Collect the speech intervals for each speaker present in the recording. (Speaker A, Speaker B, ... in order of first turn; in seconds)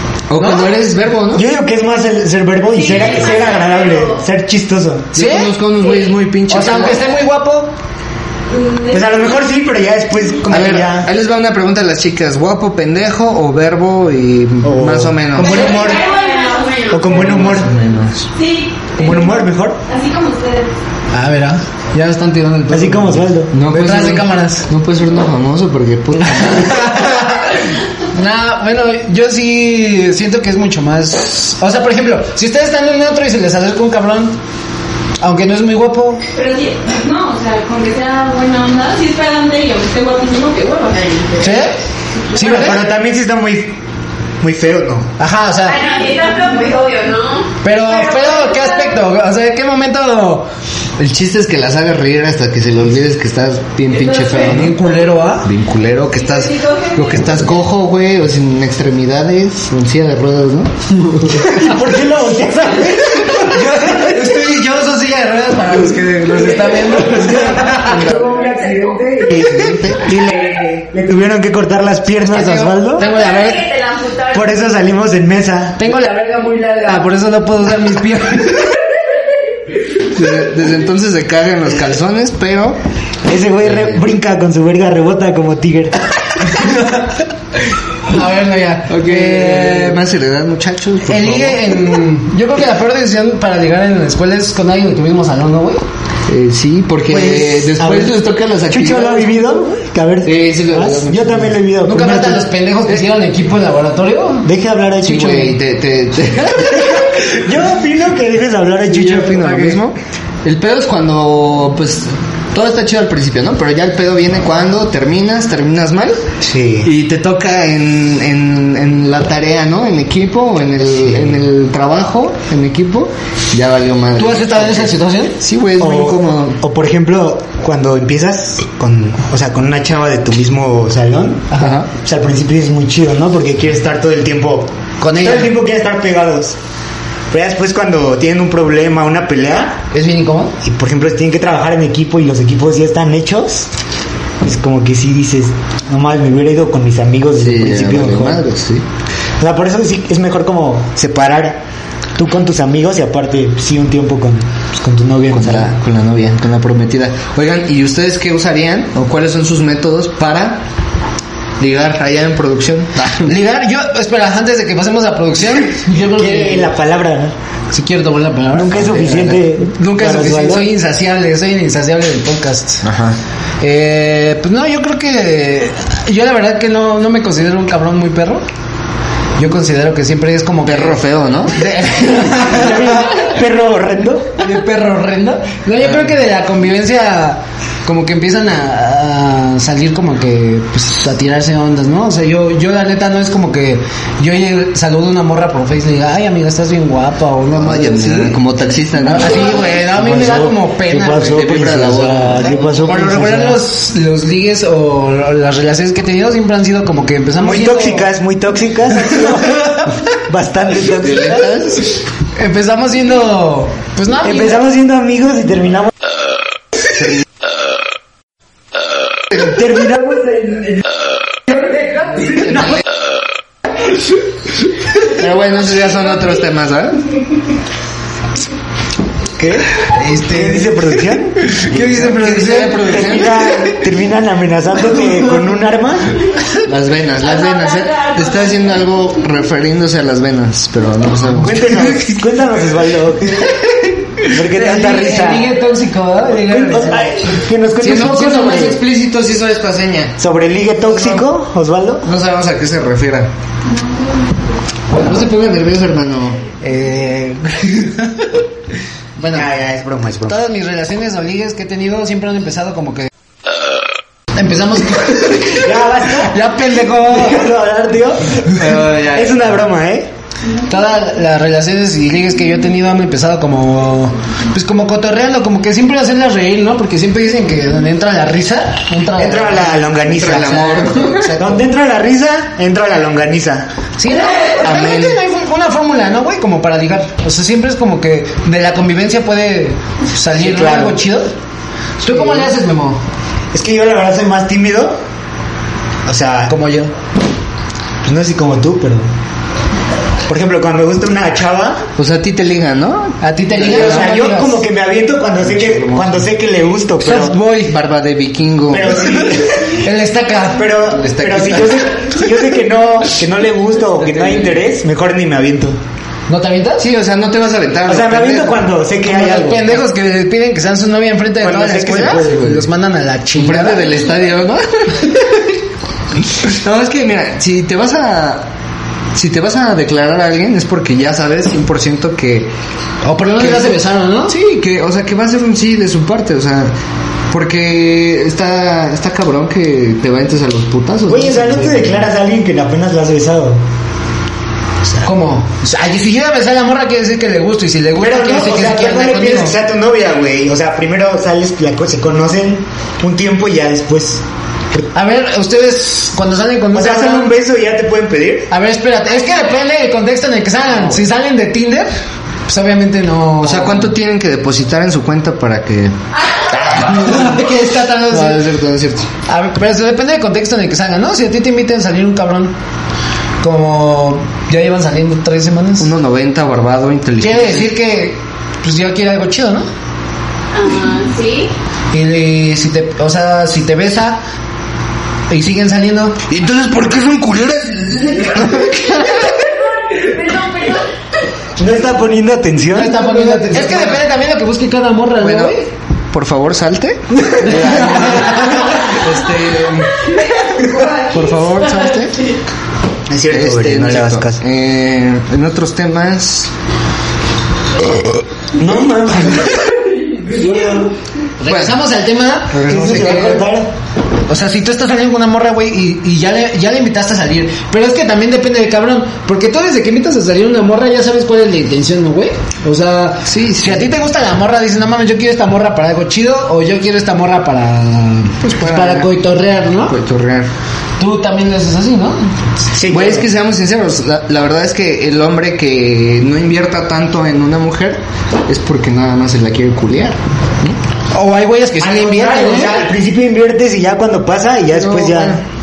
Speaker A: 0.3-1.4, 5.1-7.0, 10.5-15.7, 17.1-18.3, 23.5-27.1, 51.0-54.8, 55.4-60.7, 67.8-68.1, 69.5-70.1, 80.1-82.8, 83.7-84.0, 88.9-92.0, 96.3-99.6, 100.2-101.6, 105.0-107.3, 108.9-116.3, 116.8-126.6, 131.6-131.9, 147.4-148.8, 155.3-160.6, 161.6-163.3, 168.7-169.4, 172.8-173.2, 180.7-181.6, 185.8-186.1, 197.5-199.7, 201.1-202.8, 210.9-211.9, 217.0-217.2, 222.3-222.8, 225.0-227.1, 231.7-233.5, 236.6-242.1, 247.8-250.2, 250.8-251.3, 252.0-253.3, 254.9-256.4, 268.5-269.6, 280.1-281.5, 284.6-285.2, 302.0-304.1, 305.4-306.3, 307.7-309.2, 310.9-312.1, 314.0-314.6, 316.8-318.6, 323.4-325.4, 326.3-328.5, 329.1-332.5, 333.4-333.8, 334.3-336.7, 337.3-342.1, 363.4-369.1, 375.8-377.7, 386.3-389.4, 393.3-394.0, 395.2-395.5, 396.1-400.1, 400.8-402.2, 403.3-406.5, 411.5-411.8, 412.5-413.4, 423.3-423.9, 428.4-429.1, 429.9-430.5, 432.9-440.8, 444.7-445.4
Speaker B: 0.4-0.8, 5.2-5.5, 6.5-7.7, 21.1-24.7, 26.3-34.4, 35.2-36.2, 41.4-41.8, 42.3-42.9, 45.2-45.9, 47.6-50.5, 54.3-55.5, 63.3-68.1, 72.2-73.7, 75.8-78.8, 86.5-87.1, 88.1-90.0, 91.1-95.8, 101.8-104.5, 124.2-125.4, 131.5-131.8, 135.0-135.5, 139.9-140.6, 163.2-166.7, 167.7-168.9, 169.7-172.8, 173.6-178.4, 179.4-181.0, 181.5-183.2, 184.4-198.4, 199.2-201.4, 202.8-208.1, 212.3-214.6, 229.9-230.9, 231.4-233.1, 244.5-247.2, 256.6-258.3, 259.2-259.5, 260.3-263.1, 264.4-267.5, 270.7-281.5, 284.0-291.3, 292.0-293.0, 296.5-296.9, 303.2-304.6, 307.0-307.8, 309.5-310.7, 316.3-316.9, 319.0-323.9, 333.0-334.3, 345.0-349.5, 354.9-357.4, 358.5-361.9, 362.5-363.9, 366.8-368.4, 369.3-372.5, 373.4-375.9, 377.2-379.7, 381.9-384.2, 385.3-386.2, 392.7-395.7, 397.4-398.7, 411.4-413.4, 414.3-429.9, 431.0-432.4, 441.1-442.9
Speaker C: 1.3-5.1, 8.9-11.1, 14.6-16.2, 16.9-17.7, 19.0-19.8, 22.7-23.5, 42.4-43.8, 44.4-45.1, 61.3-63.9, 67.0-73.1, 74.3-75.8, 83.3-86.0, 97.1-98.2, 98.7-102.5, 104.4-105.6, 106.7-109.8, 116.4-116.9, 125.8-136.6, 137.3-139.8, 140.6-143.7, 144.4-148.4, 149.4-151.6, 152.2-155.7, 166.0-167.3, 168.5-170.7, 182.4-184.4, 199.9-203.6, 207.4-211.6, 214.2-215.9, 219.3-220.8, 222.1-222.8, 229.4-229.7, 230.3-236.2, 241.4-243.6, 244.2-245.5, 246.4-248.8, 250.2-252.1, 259.3-260.4, 265.5-266.4, 266.9-270.1, 279.2-280.6, 281.4-283.7, 290.4-291.0, 292.1-292.4, 293.5-295.0, 296.1-296.5, 298.1-299.1, 300.3-301.9, 303.6-307.4, 308.7-309.9, 310.4-315.8, 317.9-319.7, 321.4-322.7, 341.1-343.6, 348.0-354.2, 356.7-358.5, 391.6-393.6, 403.1-404.4, 408.6-410.9, 412.6-413.7, 432.7-433.3, 441.8-445.4
Speaker D: 2.7-4.2, 5.8-6.1, 8.5-9.4, 15.3-17.6, 18.4-20.7, 36.3-41.6, 45.6-48.9, 53.9-54.6, 56.1-57.5, 68.1-68.9, 73.0-74.6, 237.2-238.9, 380.5-381.5, 389.5-390.9, 400.5-401.1